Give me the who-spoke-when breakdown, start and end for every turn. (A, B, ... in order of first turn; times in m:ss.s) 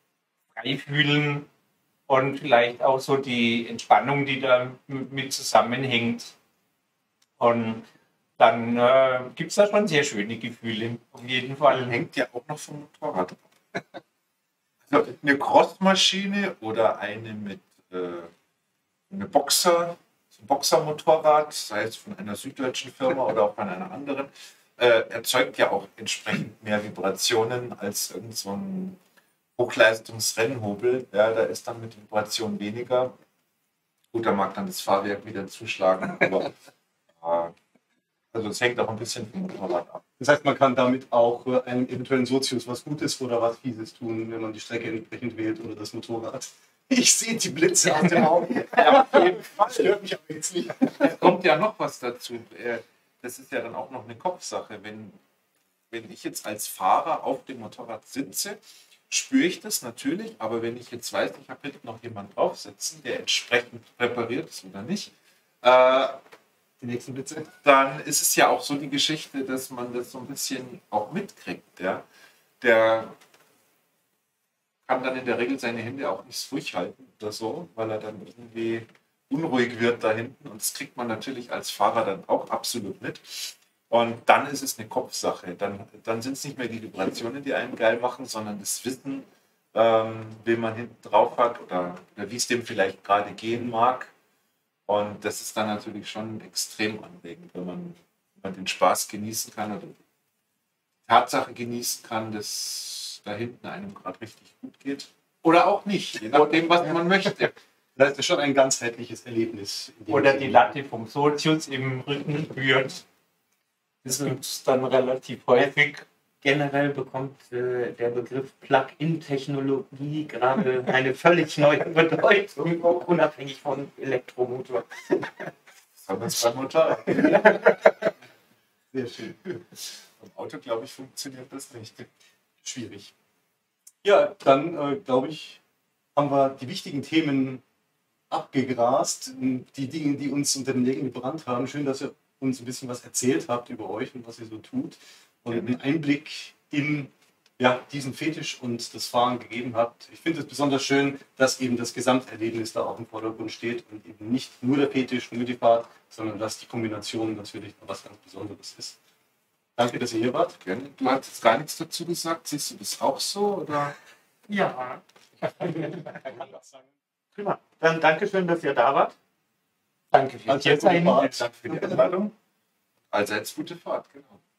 0:00.5-0:01.5 A
0:02.1-0:06.3 A
0:07.4-0:07.8 A
0:08.4-0:12.0 A
0:11.7-0:13.4 B
0:14.9-0:18.3 B
0:19.1-0:29.0 B
0:29.6-0:33.1 B
0:34.1-0:36.5 B
0:37.2-0:37.5 B
0:38.3-0:40.0 B
0:40.2-0:51.4 C
0:48.6-0:50.0 B
0:50.9-0:55.2 B
0:55.9-0:58.6 B
0:59.1-1:06.2 B
1:06.8-1:07.5 C
1:07.6-1:12.0 B
1:12.6-1:13.2 B
1:14.8-1:34.1 B
1:34.9-1:40.0 B
1:41.0-1:47.5 B
1:48.0-1:50.8 C
1:50.1-1:53.0 A
1:54.0-1:56.0 A
1:56.4-2:05.5 D
2:06.0-2:08.1 B
2:08.9-2:09.4 C
2:09.5-2:12.1 B
2:12.6-2:13.1 C
2:14.0-2:15.6 C
2:16.1-2:17.6 C
2:18.3-2:39.0 C
2:25.5-2:25.8 B
2:39.8-2:40.6 C
2:40.6-2:43.9 B
2:44.5-2:45.0 D
2:45.6-2:46.2 D
2:46.4-2:46.8 C
2:47.4-2:49.1 D
2:50.1-2:51.5 A
2:50.4-2:52.1 C
2:51.2-2:52.0 D
2:51.3-2:52.3 B
2:53.1-2:54.4 B